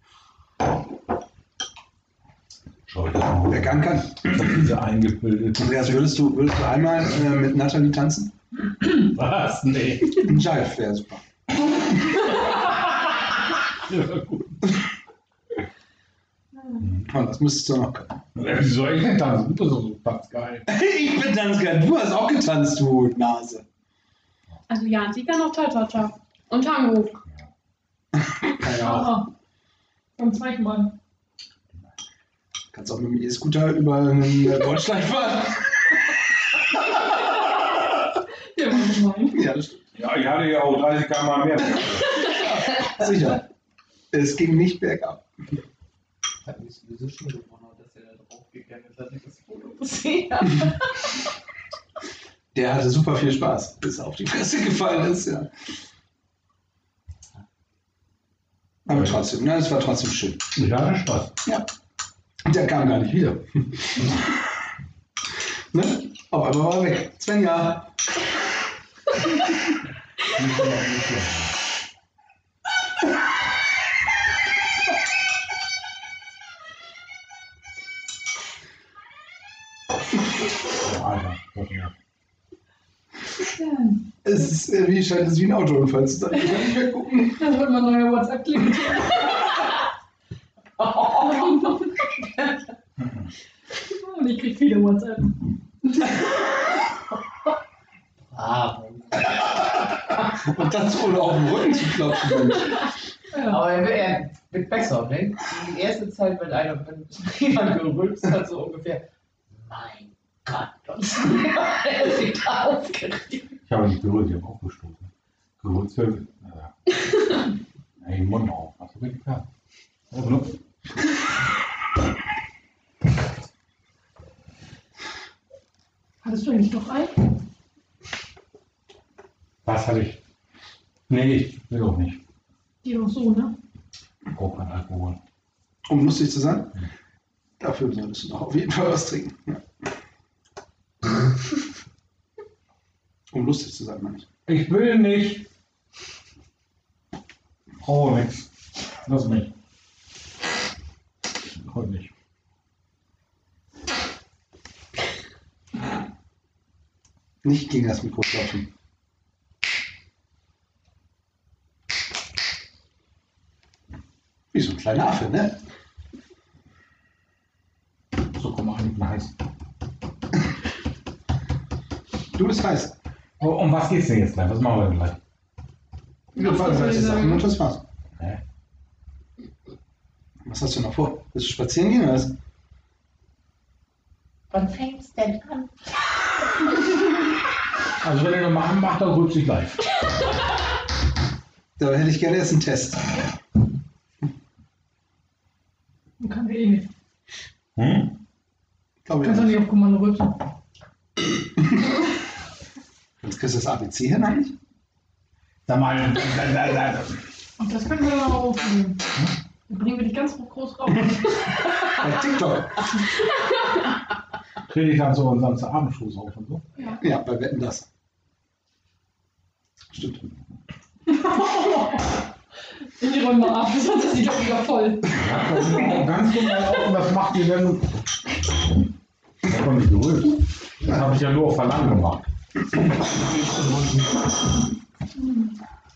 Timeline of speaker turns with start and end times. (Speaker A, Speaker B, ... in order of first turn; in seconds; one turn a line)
Speaker A: 2.9-6.0
Speaker B: 3.5-4.6
Speaker B: 5.6-8.3
Speaker A: 8.9-10.3
Speaker B: 10.1-11.2
Speaker A: 13.8-14.7
Speaker B: 17.0-18.2
Speaker A: 18.3-20.6
Speaker B: 20.7-23.6
Speaker C: 24.7-27.2
Speaker B: 28.3-29.2
Speaker D: 28.6-29.3
Speaker D: 30.2-30.9
Speaker B: 32.7-35.7
Speaker D: 38.5-39.4
Speaker B: 39.3-39.9
Speaker A: 39.9-42.4
Speaker B: 42.2-43.4
Speaker B: 44.1-45.2
Speaker E: 46.4-51.1
Speaker B: 52.5-55.5
Speaker B: 58.9-60.4
Speaker A: 60.5-61.3
Speaker B: 62.5-64.2
Speaker B: 65.7-67.9
Speaker A: 70.3-71.5
Speaker A: 80.8-81.9
Speaker D: 83.5-84.0
Speaker B: 84.2-87.4
Speaker D: 87.2-89.5
Speaker E: 90.8-91.7
Speaker D: 91.3-91.8
Speaker A: 93.0-93.3
Speaker D: 93.9-95.3
Speaker E: 98.3-99.7
Speaker B: 100.4-102.8
Speaker D: 103.3-103.6
Speaker E: 103.4-113.5
Speaker A: 113.7-116.9
Speaker A: 118.0-119.4
Speaker A: 120.1-120.6
Speaker D: 126.2-127.3
Speaker A: 129.6-130.2
Speaker A: 131.1-132.2
Speaker D: 132.8-133.5
Speaker A: 134.3-135.2
Speaker B: 135.8-136.7
Speaker B: 137.6-139.6
Speaker B: 143.3-144.2
Speaker A: 144.4-145.4
Speaker A: 147.8-148.5
Speaker A: 149.0-149.5
Speaker A: 151.6-152.1
Speaker B: 157.4-158.7
Speaker B: 164.5-165.6
Speaker A: 168.3-169.3
Speaker B: 172.3-172.9
Speaker A: 173.4-175.2
Speaker C: 176.3-177.4
Speaker B: 176.3-177.8
Speaker B: 180.4-182.3
Speaker E: 184.5-185.8
Speaker A: 188.0-189.9
Speaker B: 191.8-193.2
Speaker D: 196.2-196.9
Speaker A: 197.8-198.2
Speaker B: 199.0-199.6
Speaker D: 199.2-200.4
Speaker B: 203.2-204.5
Speaker A: 205.7-207.2
Speaker D: 207.6-209.0
Speaker D: 209.7-211.4
Speaker B: 211.9-212.9
Speaker A: 214.7-216.7
Speaker D: 216.7-217.0
Speaker B: 217.0-217.8
Speaker B: 219.9-220.3
Speaker D: 221.4-221.7
Speaker D: 223.0-226.0
Speaker A: 225.1-227.9
Speaker A: 229.4-232.3
Speaker E: 232.9-234.2
Speaker D: 235.2-235.5